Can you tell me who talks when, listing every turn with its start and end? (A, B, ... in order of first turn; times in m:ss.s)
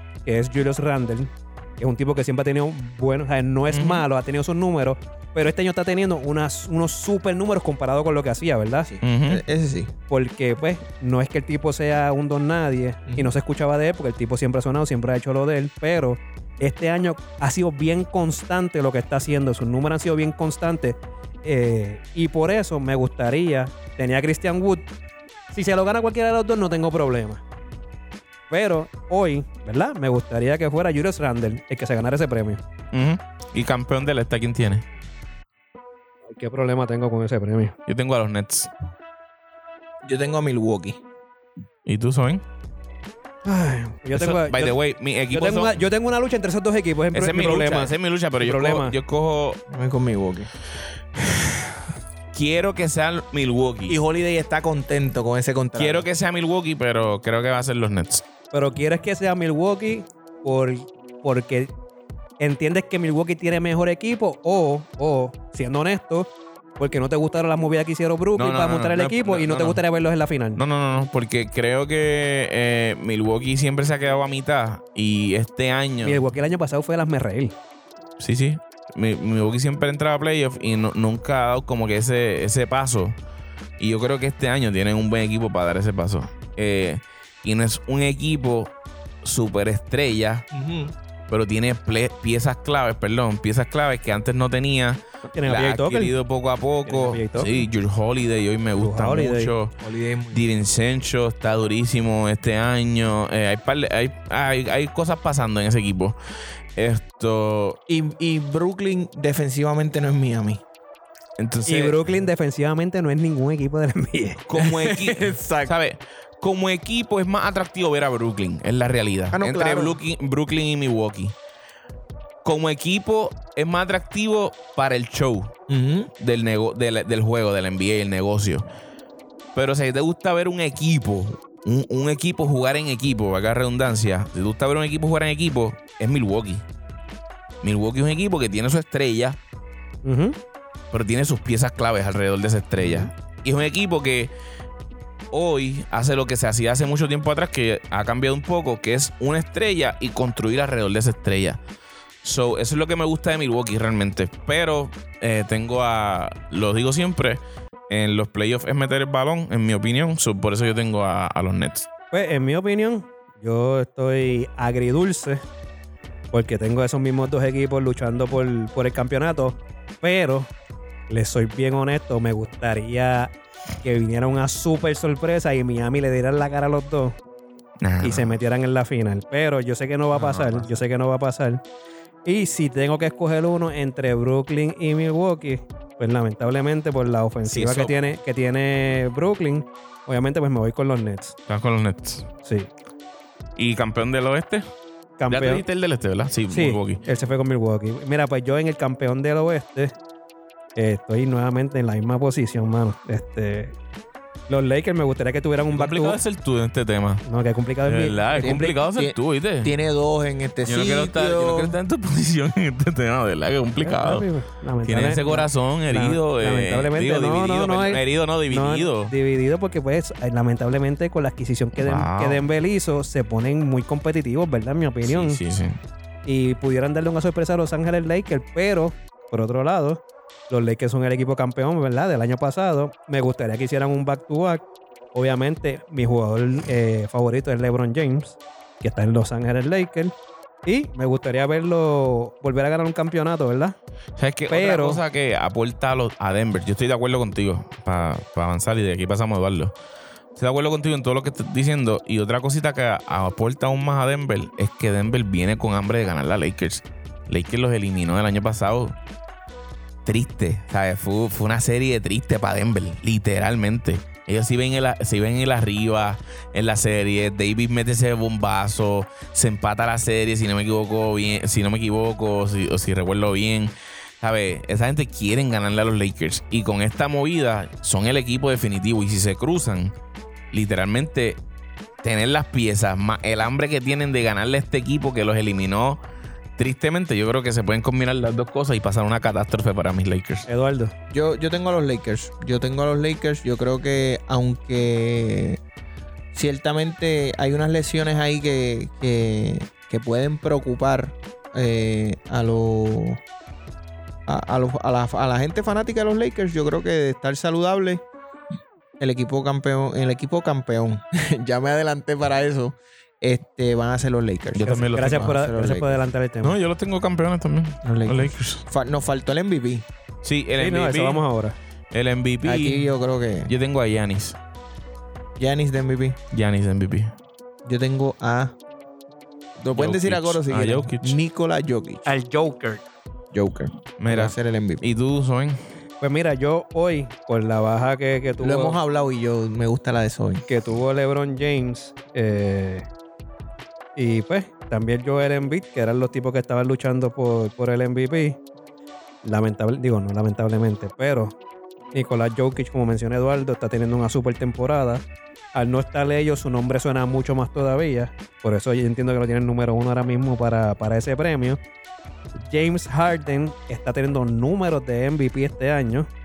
0:00.2-0:08.9 A
0:03.7-0:04.0 B
0:08.9-0:09.9 C
0:09.0-0:09.4 B
0:10.1-0:24.9 A
0:13.1-0:13.3 C
0:25.5-0:27.4 A
0:28.5-0:32.6 A
0:32.9-0:34.8 B
0:36.3-0:37.8 A
0:37.9-0:38.7 B
0:40.0-0:41.0 C
0:41.9-0:42.4 B
0:43.4-0:44.8 A
0:44.1-0:45.8 B
0:45.3-0:49.0 A
0:47.1-0:49.6 B
0:49.7-0:50.5 C
0:52.3-0:54.0 B
0:53.9-0:56.1 C
0:55.8-0:58.2 B
0:58.5-1:01.7 A
1:02.4-1:10.6 A
1:08.4-1:09.8 B
1:10.6-1:16.2 B
1:16.0-1:17.6 A
1:18.2-1:23.2 B
1:23.8-1:28.7 B
1:29.2-1:30.5 B
1:30.5-1:31.0 C
1:31.3-1:39.7 B
1:35.3-1:36.2 A
1:36.9-1:37.7 A
1:38.8-1:39.5 A
1:39.8-1:40.6 C
1:40.3-1:46.2 B
1:46.8-1:47.8 B
1:47.9-1:50.6 C
1:51.4-1:52.0 B
1:51.7-1:54.4 A
1:54.5-2:01.4 B
1:54.6-1:55.7 C
1:59.3-2:00.0 C
2:02.4-2:05.5 B
2:05.7-2:06.1 C
2:06.2-2:08.7 B
2:09.6-2:16.6 B
2:17.6-2:19.4 B
2:20.0-2:20.4 A
2:20.9-2:24.3 B
2:25.3-2:31.6 B
2:32.2-2:41.9 B
2:42.1-2:45.4 A
2:46.3-2:50.5 A
2:51.1-2:57.2 A
2:57.8-2:58.4 B
2:58.0-3:01.6 A
3:00.1-3:00.8 B
3:02.2-3:11.4 A
3:07.4-3:08.0 B
3:11.5-3:12.3 B
3:12.4-3:12.7 A
3:13.6-3:14.6 B
3:15.2-3:15.6 A
3:15.3-3:17.0 B
3:16.5-3:19.9 A
3:20.8-3:23.8 A
3:24.5-3:26.2 A
3:25.7-3:27.2 B
3:27.2-3:28.8 A
3:27.8-3:29.8 B
3:28.4-3:31.8 C
3:30.7-3:34.3 B
3:33.8-3:45.4 A
3:34.8-3:39.1 B
3:41.8-3:42.4 B
3:45.0-3:45.8 B
3:46.3-4:00.2 A
4:00.7-4:03.8 A
4:04.2-4:09.8 B
4:04.5-4:05.0 A
4:10.4-4:19.0 B
4:20.0-4:39.9 B
4:40.5-4:41.4 B
4:42.0-4:46.0 B
4:46.6-4:50.5 B
4:50.5-4:50.9 A
4:51.1-4:55.6 C
4:56.3-5:03.2 C
5:04.3-5:08.0 C
5:09.0-5:16.0 C
5:14.6-5:15.4 B
5:14.7-5:16.6 A
5:16.4-5:18.6 B
5:17.8-5:19.9 C
5:20.2-5:21.2 B
5:20.6-5:21.6 A
5:21.9-5:22.9 B
5:22.4-5:23.5 C
5:23.5-5:24.4 B
5:25.4-5:26.2 C
5:26.3-5:27.2 B
5:27.6-5:28.6 C
5:29.6-5:32.1 C
5:29.8-5:31.2 B
5:32.1-5:32.8 A
5:33.3-5:34.8 C
5:34.0-5:35.6 B
5:36.0-5:38.8 A
5:38.4-5:40.4 C
5:40.5-5:42.9 A
5:44.0-5:48.4 A
5:49.2-5:51.4 A
5:51.9-6:01.6 A
6:02.4-6:06.1 A